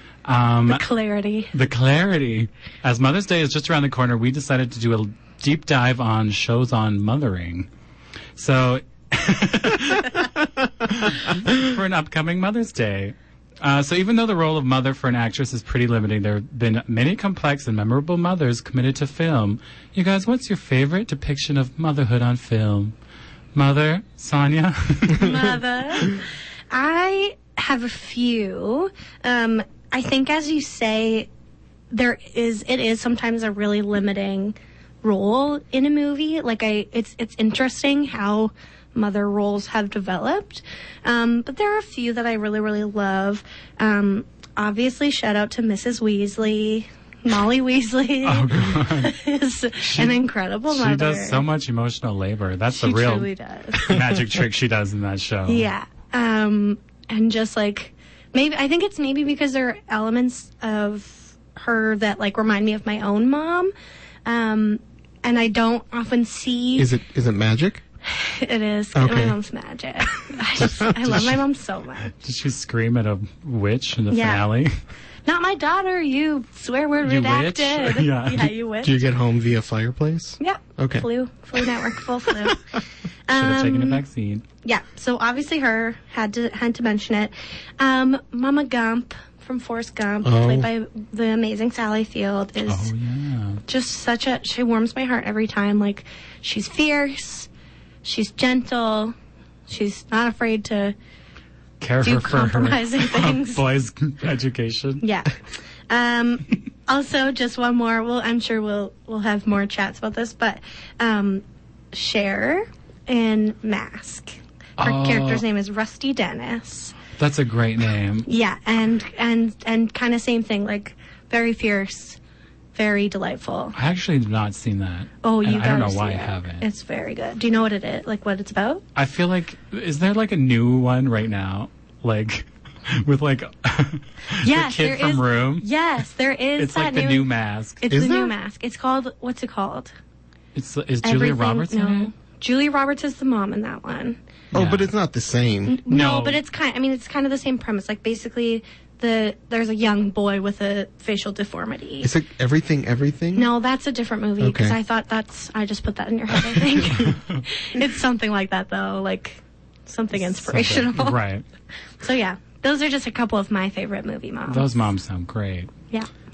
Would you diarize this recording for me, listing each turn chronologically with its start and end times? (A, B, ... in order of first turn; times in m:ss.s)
0:00.2-0:00.8 A
0:00.7-0:01.5 B
0:01.5-0:07.7 A
0:08.4-0:23.0 A
0:23.6-0:25.3 A
0:25.1-0:31.3 B
0:31.9-0:51.4 B
0:48.2-0:49.2 A
0:49.8-0:55.7 A
0:52.7-0:53.9 B
0:55.4-1:03.7 B
1:04.2-1:06.9 B
1:06.8-1:07.8 C
1:08.1-1:12.1 B
1:09.0-1:09.4 C
1:10.6-1:11.3 C
1:12.1-1:14.7 A
1:14.1-1:14.4 B
1:15.3-1:19.1 B
1:17.0-1:18.5 A
1:18.8-1:21.1 C
1:20.4-1:22.6 B
1:23.3-1:24.0 B
1:23.3-1:24.4 A
1:24.6-1:32.9 B
1:30.2-1:30.7 C
1:32.7-1:33.6 A
1:33.7-1:37.5 B
1:38.0-1:39.1 B
1:39.7-1:41.0 B
1:41.8-1:45.0 A
1:42.0-1:43.6 B
1:45.0-1:45.3 B
1:45.9-1:57.0 B
1:54.8-1:55.4 A
1:57.2-1:58.3 A
1:58.3-2:02.2 B
2:02.7-2:03.7 B
2:03.7-2:06.7 A
2:05.2-2:08.8 B
2:09.0-2:15.7 A
2:14.4-2:17.3 B
2:16.6-2:17.8 A
2:17.8-2:19.9 B
2:17.9-2:18.3 C
2:20.6-2:22.1 A
2:21.0-2:24.2 B
2:24.5-2:24.9 A
2:24.5-2:25.8 C
2:25.7-2:32.1 B
2:25.9-2:26.4 A
2:32.0-2:33.5 C
2:33.3-2:41.2 B
2:34.4-2:34.8 C
2:40.2-2:41.4 A
2:42.0-2:44.9 B
2:44.5-2:45.7 A